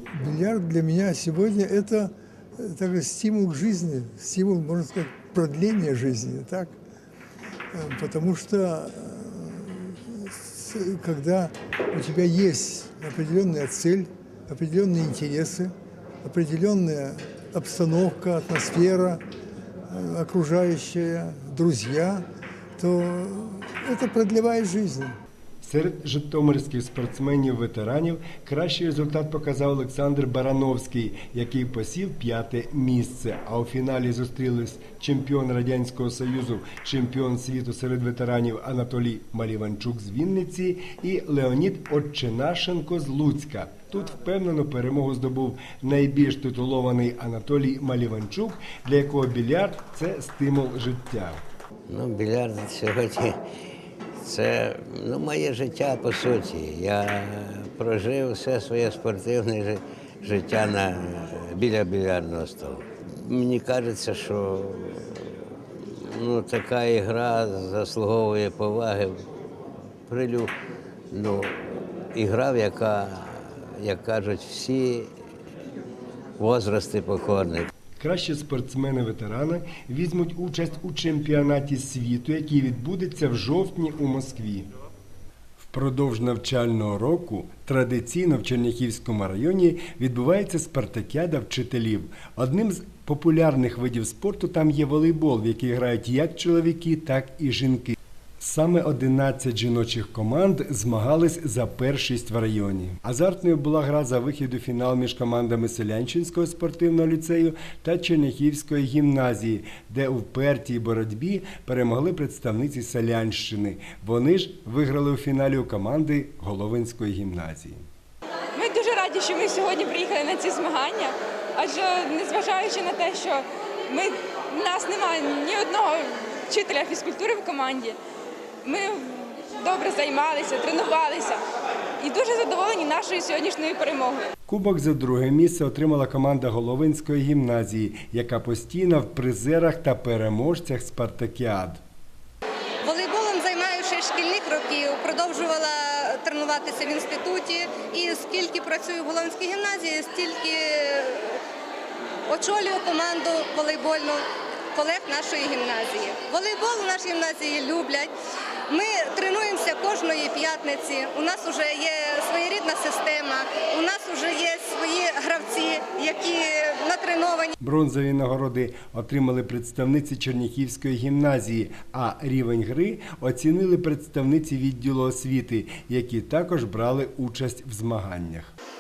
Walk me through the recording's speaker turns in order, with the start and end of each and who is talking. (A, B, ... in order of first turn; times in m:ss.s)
0:00.1-0:06.7 A
0:07.7-0:15.7 A
0:16.2-0:19.2 A
0:19.9-0:22.2 A
0:22.8-0:25.2 A
0:25.6-0:51.4 B
0:51.9-0:53.1 C
0:54.3-0:57.0 C
0:57.8-0:59.6 C
1:00.3-1:02.7 C
1:03.3-1:04.4 C
1:06.2-1:09.0 C
1:10.1-1:10.4 C
1:12.2-1:12.9 C
1:13.8-1:14.8 C
1:16.4-1:17.5 C
1:18.0-1:24.7 B
1:25.6-1:57.9 B
1:58.6-2:08.0 D
2:08.6-2:11.4 D
2:12.0-2:14.3 D
2:14.5-2:21.8 B
2:22.8-2:31.4 E
2:32.3-2:34.2 E
2:34.8-2:38.1 E
2:38.7-2:47.6 E
2:47.6-2:58.5 B